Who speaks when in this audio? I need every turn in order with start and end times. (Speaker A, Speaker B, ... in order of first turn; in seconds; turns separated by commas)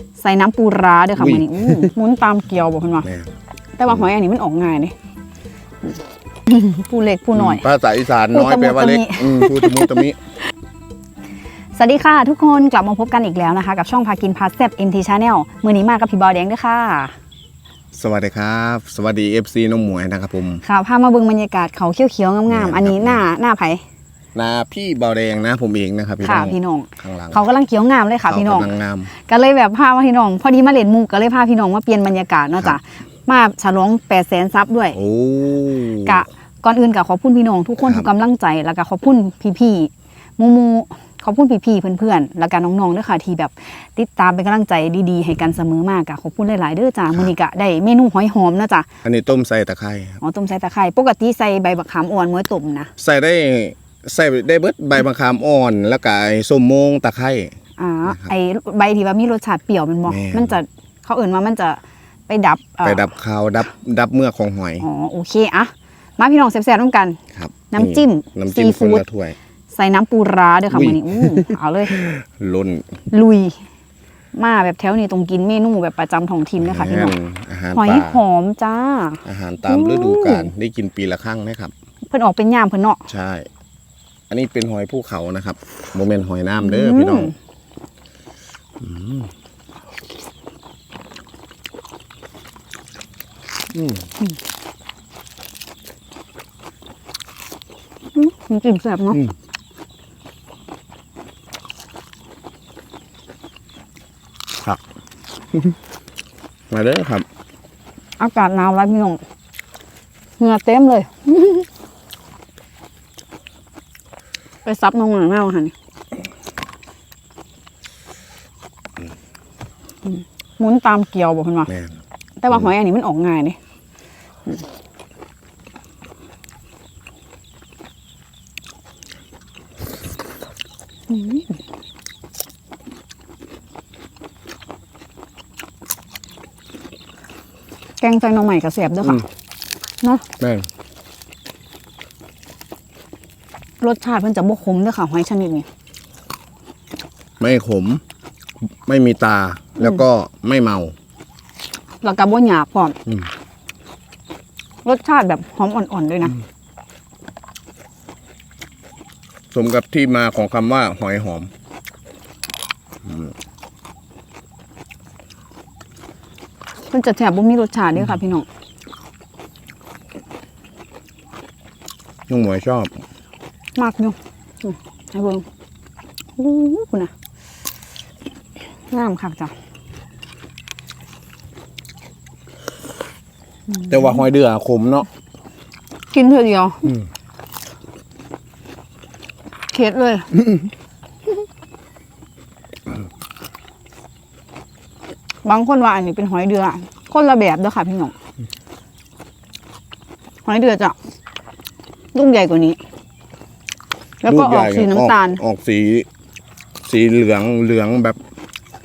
Speaker A: 0.2-3.1, Speaker B: 1.2-1.9, Speaker B: 3.0-3.3, Speaker A: 3.8-4.9, Speaker A: 6.5-7.6, Speaker B: 7.3-10.2, Speaker A: 8.3-10.0, Speaker A: 11.7-17.1, Speaker B: 17.9-20.6, Speaker A: 20.6-23.8, Speaker B: 22.5-23.2, Speaker B: 24.3-27.4, Speaker A: 26.2-35.0, Speaker B: 28.2-29.1, Speaker B: 34.9-36.2, Speaker A: 36.0-48.9, Speaker B: 37.8-38.1, Speaker B: 49.0-50.2, Speaker A: 50.2-52.9, Speaker B: 53.0-57.5, Speaker A: 57.8-63.0, Speaker B: 58.0-58.3, Speaker B: 60.1-60.6, Speaker B: 62.8-64.8, Speaker A: 64.8-67.2, Speaker B: 67.3-69.4, Speaker A: 67.7-69.0, Speaker A: 69.7-72.1, Speaker B: 70.7-73.0, Speaker A: 73.1-73.6, Speaker A: 74.3-77.1, Speaker B: 76.6-78.2, Speaker A: 77.7-80.5, Speaker B: 79.2-81.7, Speaker A: 82.1-83.0, Speaker B: 83.1-83.5, Speaker B: 84.3-87.3, Speaker A: 86.6-87.3, Speaker B: 88.8-89.3, Speaker B: 93.7-94.1, Speaker A: 98.1-99.2, Speaker B: 106.7-107.2, Speaker A: 108.2-109.2, Speaker A: 110.4-111.7, Speaker A: 114.6-115.7, Speaker A: 120.0-121.7, Speaker B: 121.7-122.0, Speaker A: 122.4-123.6, Speaker A: 131.1-131.5, Speaker A: 138.0-139.2, Speaker B: 140.4-140.7, Speaker A: 143.8-145.7, Speaker B: 147.4-148.0, Speaker B: 148.8-150.9, Speaker A: 152.0-153.0, Speaker A: 154.8-156.4, Speaker B: 159.5-161.5, Speaker B: 163.1-163.3, Speaker A: 166.9-168.4, Speaker B: 172.3-172.9, Speaker A: 173.8-175.4, Speaker A: 176.4-177.1, Speaker A: 178.9-179.5, Speaker A: 183.7-184.2, Speaker B: 183.9-185.1, Speaker A: 186.1-186.9, Speaker A: 189.7-190.4, Speaker A: 195.4-198.1, Speaker A: 200.4-200.9, Speaker A: 202.1-202.8, Speaker A: 204.2-205.4, Speaker B: 204.2-206.1, Speaker B: 206.8-208.2